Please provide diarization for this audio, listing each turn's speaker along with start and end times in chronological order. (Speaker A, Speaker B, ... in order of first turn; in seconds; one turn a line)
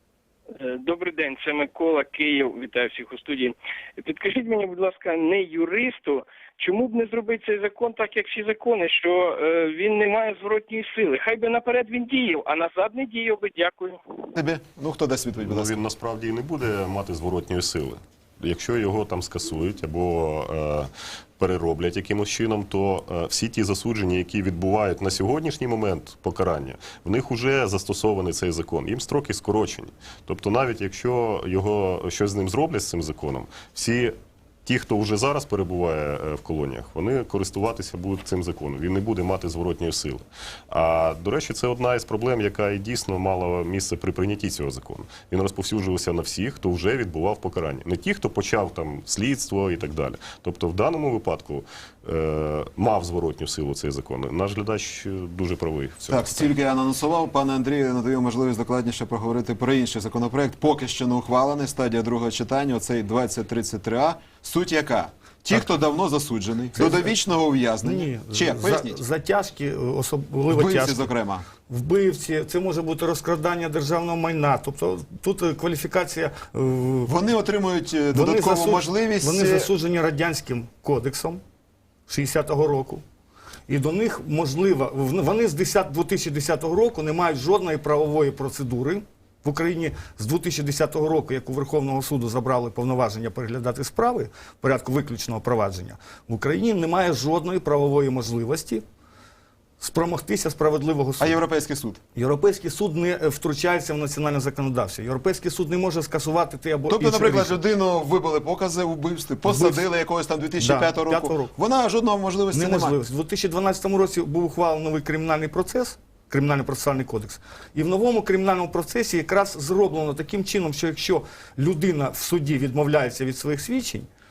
Speaker A: 0.5-14.3
Speaker B: 14.4-15.8
Speaker C: 15.4-34.1
Speaker C: 34.6-56.5
Speaker B: 56.1-69.0
Speaker D: 66.8-67.2
Speaker D: 67.8-71.1
Speaker B: 70.5-71.5
Speaker D: 71.7-77.2
Speaker B: 77.1-79.7
Speaker D: 78.1-81.4
Speaker D: 82.1-83.0
Speaker D: 83.7-98.8
Speaker D: 99.8-101.4
Speaker B: 101.2-102.0
Speaker D: 102.1-107.6
Speaker B: 106.9-113.0
Speaker D: 109.4-109.9
Speaker D: 110.6-111.5
Speaker D: 112.5-124.1